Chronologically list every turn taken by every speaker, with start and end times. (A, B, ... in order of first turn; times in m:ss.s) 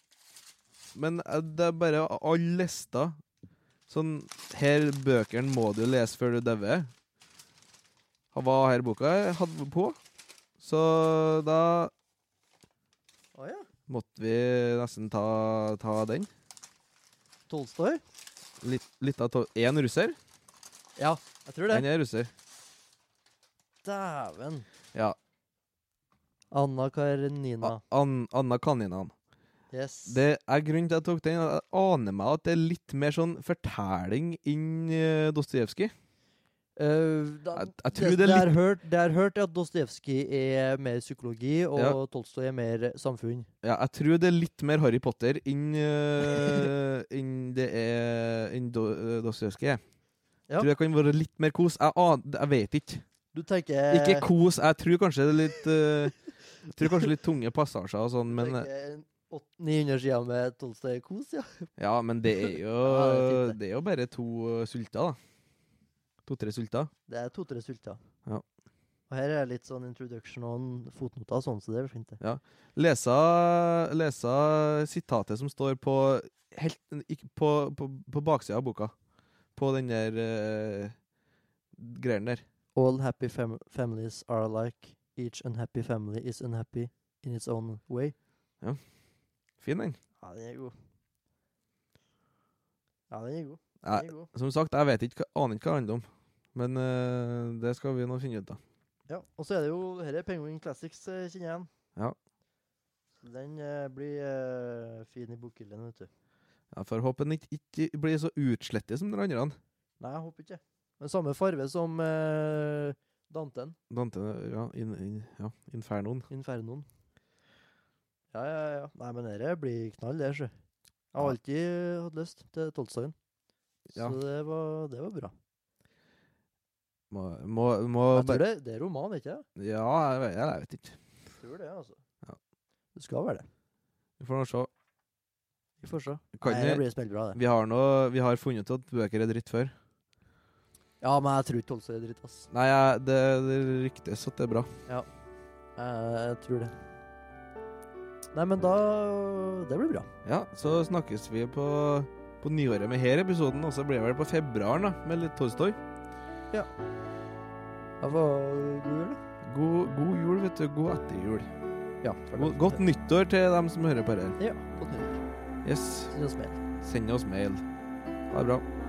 0:01.0-0:03.2 A
0:03.9-0:06.9 A
0:08.3-0:10.0 A
0:10.6-0:11.9 A
0:13.4-0:13.7 B
0:13.9-0:16.3 A
0:17.5-0:18.0 B
0:18.6-0:20.2 A
0:21.0-0:21.8 B
0:21.7-0:22.3 A
0:23.8-0:24.7 B
0:26.5-0:27.8 B
0:27.6-0:29.1 A
0:29.7-0:30.2 B
0:30.1-0:35.9 A
0:36.8-0:43.5 B
0:37.6-0:38.6 A
0:43.6-0:49.8 A
0:50.6-0:53.0 A
0:53.3-0:54.3 B
0:53.9-0:56.2 A
0:56.7-0:58.7 A
0:58.3-1:01.7 B
1:01.8-1:05.2 A
1:02.4-1:03.6 B
1:06.3-1:06.9 A
1:07.1-1:08.0 B
1:09.1-1:12.2 B
1:12.2-1:18.9 A
1:19.6-1:21.0 A
1:21.7-1:22.4 A
1:22.8-1:28.1 B
1:29.6-1:30.0 A
1:30.2-1:30.7 B
1:33.1-1:34.3 B
1:33.8-1:38.6 A
1:39.1-1:41.7 B
1:43.2-1:46.1 B
1:46.7-1:49.6 A
1:50.0-1:53.8 B
1:53.9-1:56.3 A
1:56.3-1:56.9 B
1:58.3-2:00.5 B
2:01.1-2:03.2 B
2:03.9-2:04.2 A
2:04.0-2:05.3 B
2:07.1-2:08.4 A
2:08.1-2:09.4 B
2:09.6-2:11.0 A
2:11.4-2:12.0 B
2:13.0-2:13.5 B
2:14.2-2:14.7 A
2:15.8-2:17.4 B
2:16.4-2:16.8 A
2:17.3-2:19.7 A
2:21.0-2:22.5 B
2:22.5-2:24.7 A
2:25.8-2:26.8 B
2:28.3-2:30.1 B
2:30.2-2:35.8 A
2:38.0-2:39.2 B
2:39.4-2:41.5 A
2:42.0-2:42.8 B
2:42.3-2:44.4 A
2:44.4-2:45.2 B
2:45.6-2:46.1 A
2:46.1-2:46.6 B
2:46.8-2:47.6 A
2:48.3-2:48.6 A